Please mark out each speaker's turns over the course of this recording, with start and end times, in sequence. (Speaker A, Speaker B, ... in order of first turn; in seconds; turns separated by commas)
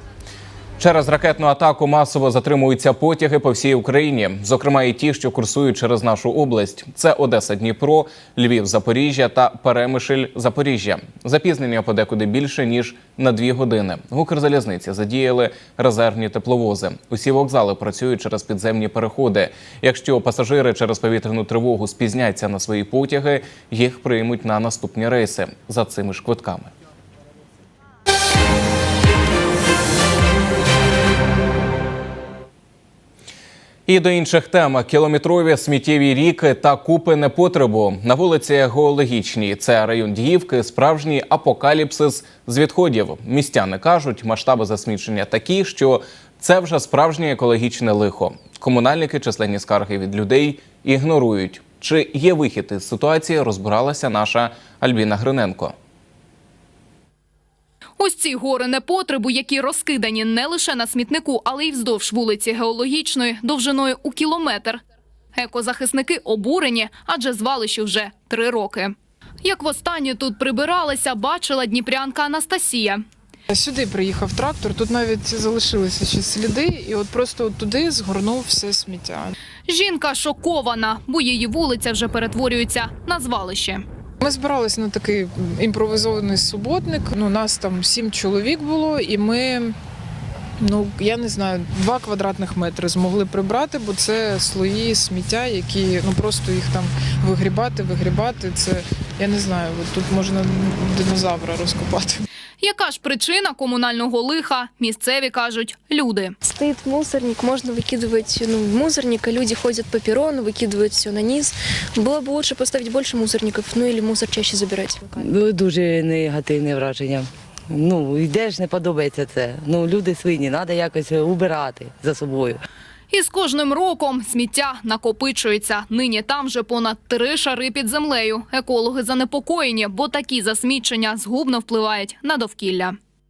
Speaker A: 0.8-26.7, Speaker A: 33.9-55.7, Speaker B: 58.0-64.8, Speaker B: 65.3-73.0, Speaker C: 73.5-79.3, Speaker B: 79.7-83.8, Speaker C: 84.2-89.7, Speaker C: 90.6-102.2, Speaker B: 102.6-106.3, Speaker D: 106.4-115.2, Speaker E: 115.2-122.6, Speaker B: 123.1-133.0